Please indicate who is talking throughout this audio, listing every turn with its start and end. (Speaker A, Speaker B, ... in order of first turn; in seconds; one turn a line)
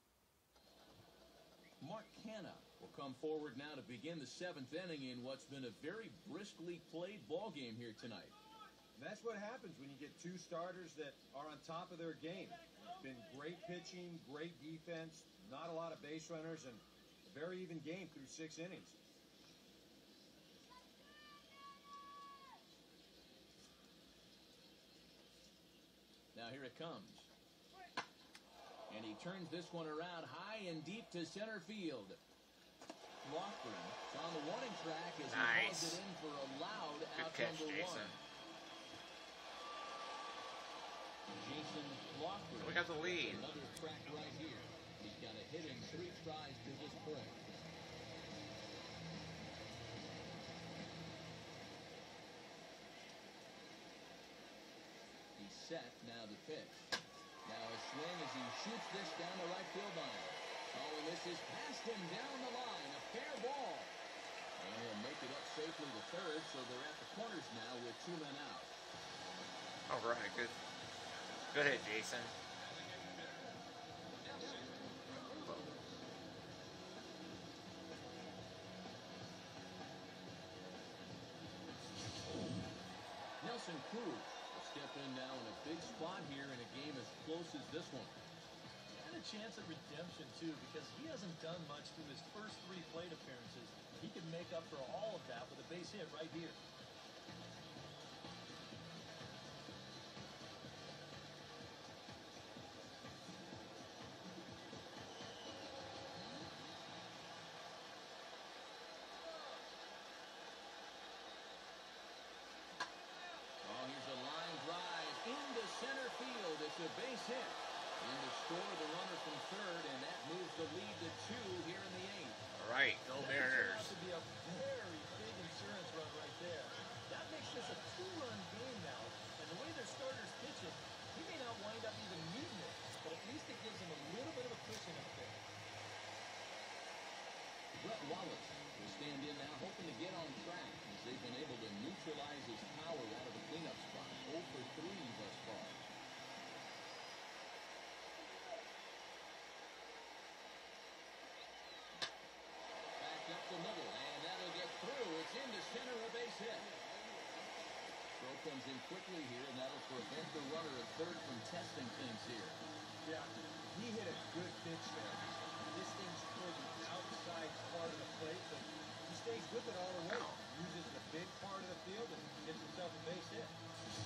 Speaker A: 1.8-8.3
Speaker B: 8.9-19.0
Speaker A: 26.3-27.3
Speaker A: 28.9-32.2
Speaker A: 33.2-38.2
Speaker C: 35.3-36.0
Speaker C: 37.1-38.1
Speaker A: 41.3-47.4
Speaker C: 42.6-43.4
Speaker A: 55.4-56.9
Speaker A: 57.4-64.0
Speaker A: 64.6-68.8
Speaker C: 69.9-70.5
Speaker C: 71.5-72.3
Speaker C: 75.3-75.6
Speaker A: 83.4-88.2
Speaker D: 88.9-96.6
Speaker A: 113.6-122.4
Speaker C: 122.5-123.9
Speaker D: 123.2-135.4
Speaker A: 137.8-145.9
Speaker A: 153.0-156.7
Speaker A: 158.2-162.6
Speaker B: 163.0-173.6
Speaker C: 170.1-170.4